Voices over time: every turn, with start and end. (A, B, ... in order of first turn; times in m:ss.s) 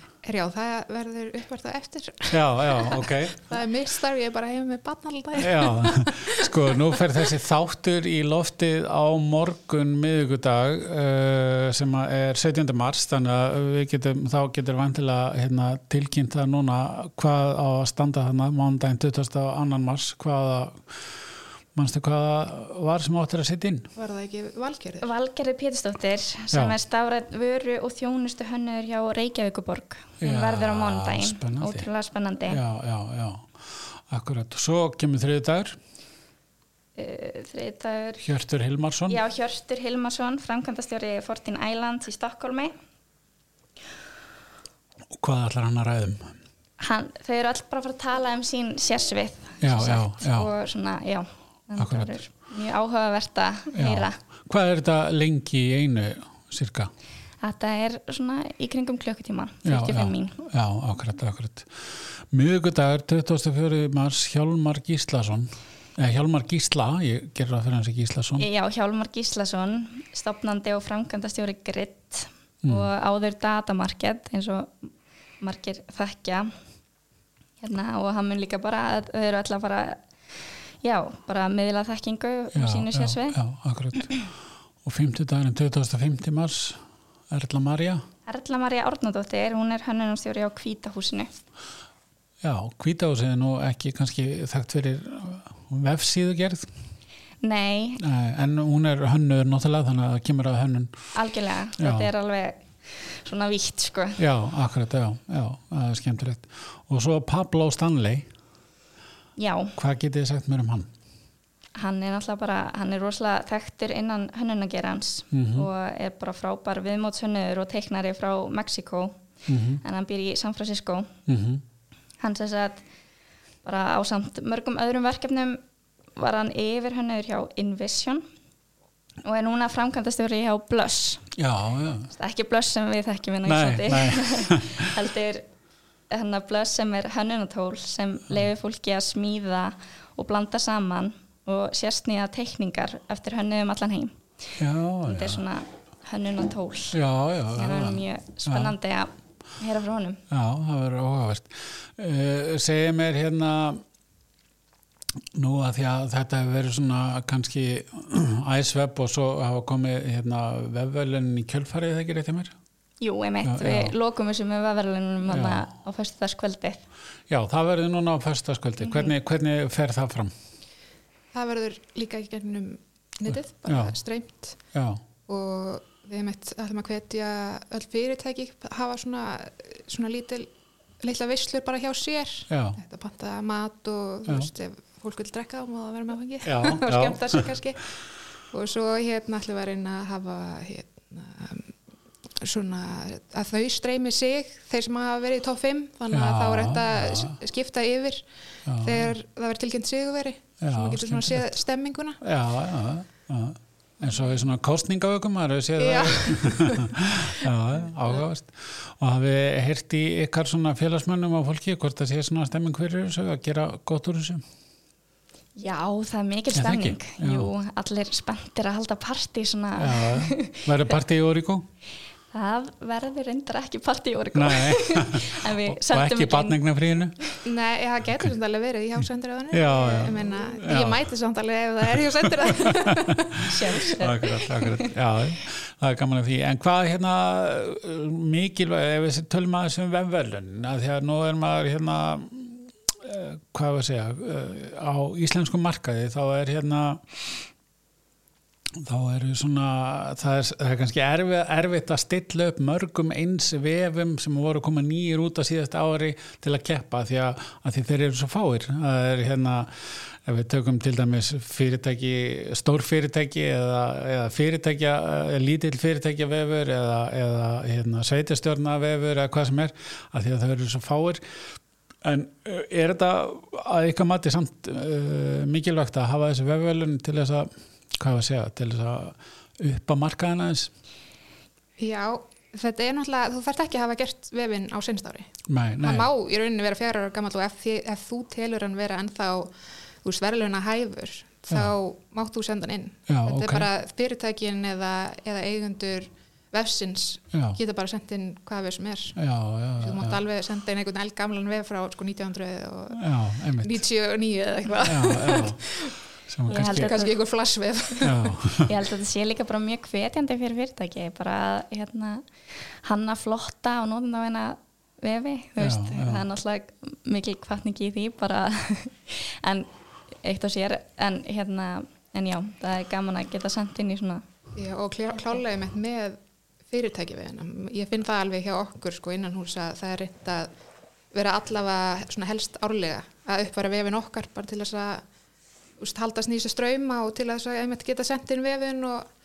0:00.2-0:06.4 A
0:02.3-0:03.5 B
0:05.4-0:20.8 B
0:21.8-0:23.9 B
0:24.0-0:25.1 A
0:25.0-0:32.6 C
0:30.2-0:31.9 B
0:32.5-0:33.5 B
0:34.1-0:35.8 B
0:37.0-0:38.3 C
0:38.2-0:39.2 B
0:39.1-0:42.7 C
0:45.1-0:46.4 B
0:46.8-0:54.2 C
0:49.6-0:50.5 B
0:51.8-0:52.2 B
0:53.7-0:56.9 B
0:57.4-1:00.4 C
0:59.6-1:08.5 B
1:08.4-1:16.5 C
1:12.6-1:12.9 B
1:17.6-1:20.0 C
1:20.8-1:23.4 C
1:22.5-1:24.1 B
1:24.8-1:28.0 B
1:28.3-1:31.3 C
1:32.4-1:36.7 B
1:37.4-1:38.0 C
1:38.0-1:40.9 B
1:41.1-1:44.2 C
1:41.8-1:42.1 B
1:44.2-1:48.3 B
1:49.4-1:49.8 C
1:49.8-1:50.9 B
1:51.8-1:59.2 C
1:55.3-1:55.7 B
1:59.5-1:59.8 B
1:59.8-2:01.1 C
2:01.3-2:01.6 B
2:02.2-2:02.8 C
2:03.6-2:05.6 C
2:06.2-2:08.2 C
2:09.2-2:11.3 C
2:11.4-2:12.1 B
2:12.1-2:15.5 C
2:13.5-2:14.9 B
2:16.1-2:24.2 C
2:24.6-2:25.4 B
2:25.1-2:27.0 C
2:26.9-2:28.8 B
2:27.6-2:30.2 C
2:30.3-2:33.8 B
2:35.3-2:42.5 B
2:43.0-2:46.8 C
2:43.4-2:44.0 B
2:45.3-2:45.7 B
2:47.3-2:50.3 B
2:48.8-2:49.1 C
2:51.3-2:54.6 A
2:53.6-2:54.0 B
2:54.7-2:55.0 B
2:55.3-3:00.5 A
3:01.0-3:07.9 A
3:02.5-3:02.8 B
3:06.4-3:07.4 B
3:08.5-3:11.7 A
3:12.4-3:18.2 A
3:16.1-3:17.3 B
3:18.7-3:19.1 B
3:18.8-3:22.2 A
3:20.6-3:21.6 B
3:22.2-3:34.4 B
3:25.8-3:27.0 A
3:35.6-3:40.9 C
3:36.6-3:37.5 B
3:39.8-3:41.7 B
3:42.3-3:46.6 C
3:44.4-3:47.2 B
3:47.4-3:53.4 A
3:49.5-3:51.0 B
3:53.4-4:07.5 B
3:53.4-3:54.9 C
4:08.8-4:31.2 B
4:32.0-4:40.7 B
4:41.8-4:45.3 A
4:45.5-4:46.1 B
4:45.8-4:59.2 A
4:53.1-4:53.7 B
4:57.3-4:57.6 B
4:59.2-5:00.2 B
4:59.8-5:03.1 A
5:02.9-5:03.8 B
5:03.6-5:05.9 A
5:04.8-5:05.6 B
5:06.3-5:07.0 B
5:06.5-5:07.1 C
5:06.5-5:08.4 A
5:08.0-5:08.8 B
5:08.6-5:19.7 C
5:15.6-5:16.2 B
5:20.2-5:24.2 C
5:24.6-5:26.2 A
5:26.7-5:30.5 A
5:31.1-5:35.0 A
5:35.8-5:39.0 A